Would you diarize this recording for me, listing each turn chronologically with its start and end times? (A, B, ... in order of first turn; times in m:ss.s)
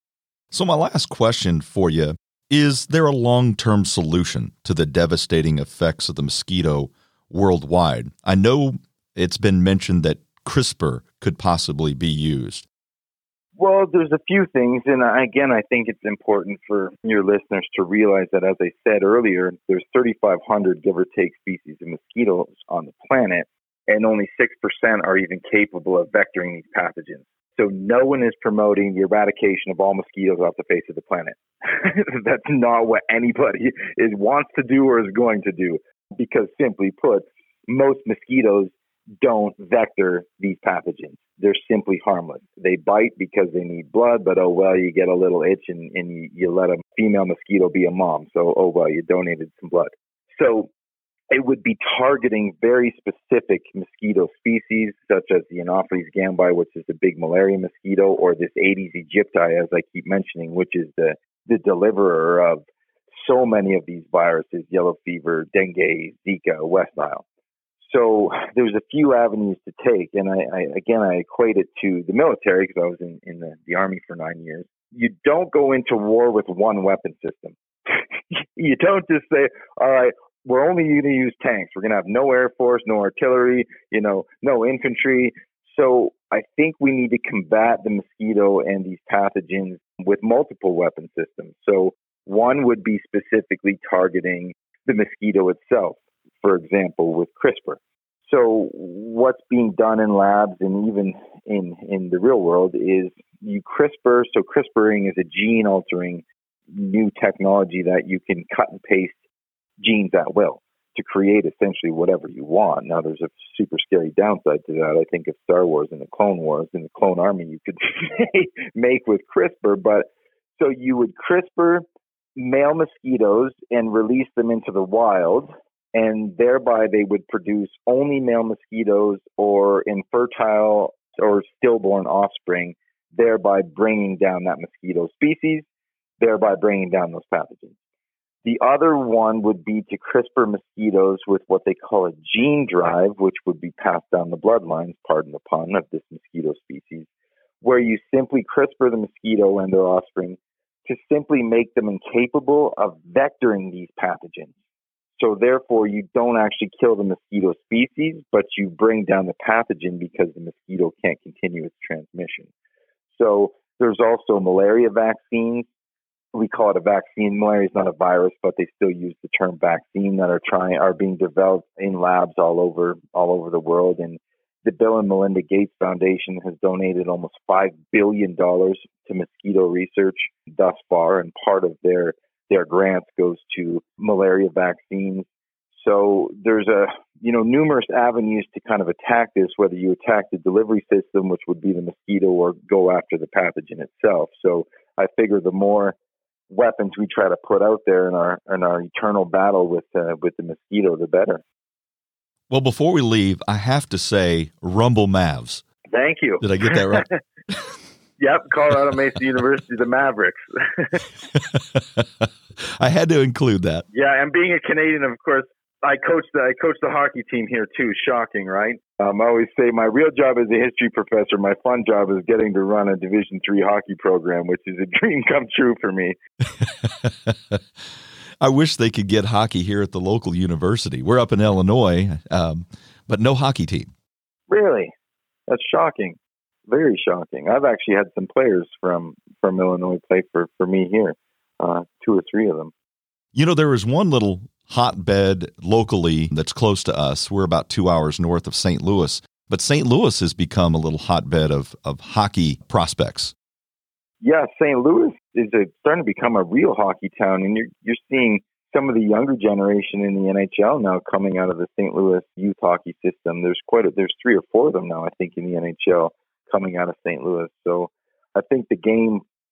0:00.5-0:12.7 A
0:13.6-0:50.7 B
0:51.3-1:07.2 B
1:07.8-1:49.2 B
1:49.8-2:01.8 B
2:02.4-2:15.7 B
2:16.2-2:17.8 B
2:18.4-2:27.1 B
2:27.6-2:34.5 B
2:35.2-2:42.5 B
2:43.1-2:45.7 B
2:46.3-3:16.0 B
3:16.5-3:21.4 B
3:22.5-3:25.6 A
3:25.9-3:27.2 B
3:26.4-3:27.1 A
3:28.2-3:31.0 B
3:31.4-3:32.3 A
3:32.8-3:33.8 A
3:33.9-3:46.2 B
3:46.6-3:47.6 A
3:48.4-3:53.9 A
3:54.5-3:54.9 B
3:55.5-4:02.7 B
4:03.3-4:13.3 A
4:14.2-4:29.2 B